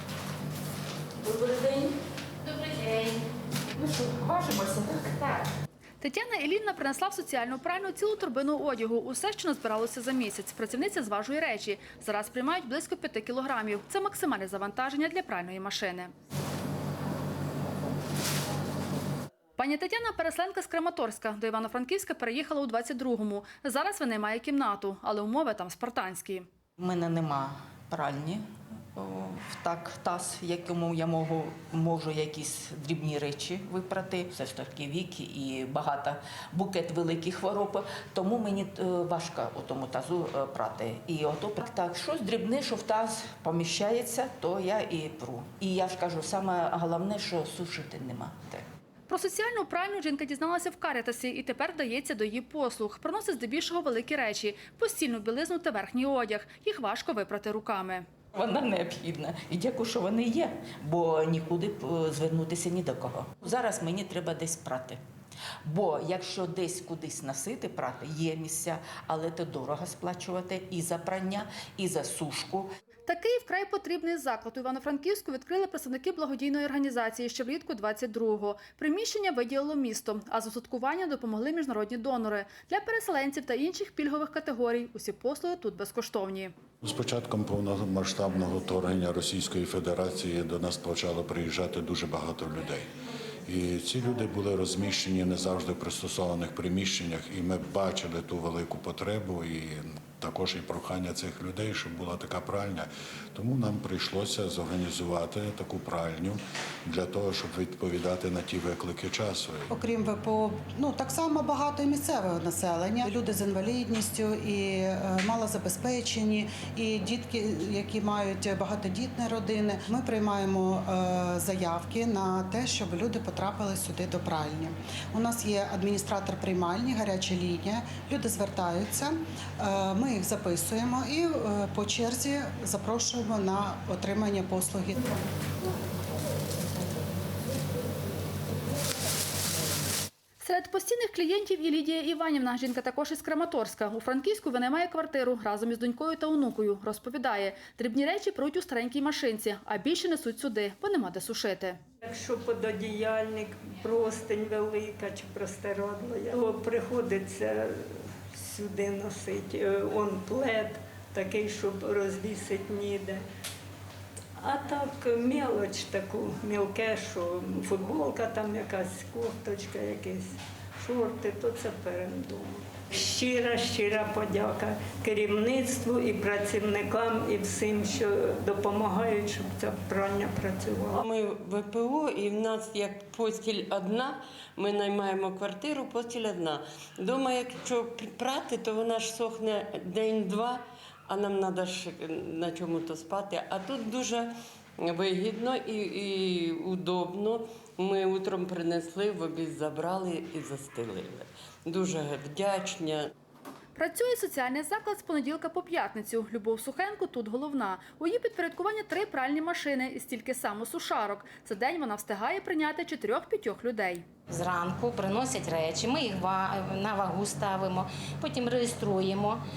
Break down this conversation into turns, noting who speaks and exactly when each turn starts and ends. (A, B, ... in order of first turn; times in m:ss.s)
0:01.2-0:01.9 A
0:03.8-0:05.4 A
0:06.0-0:16.1 B
0:19.6-0:26.5 B
0:26.8-0:28.4 A
0:29.0-0:48.6 A
0:49.1-0:58.1 B
0:58.3-1:05.0 A
1:05.7-1:12.7 A
1:13.1-1:26.5 B
1:26.8-1:32.9 C
1:33.5-1:49.7 C
1:49.7-2:15.2 D
2:20.4-2:31.8 B
2:32.0-2:37.8 E
2:38.3-2:43.2 E
2:44.4-3:01.0 E
3:01.0-3:23.1 F
3:23.8-3:34.0 B
3:34.3-3:39.4 G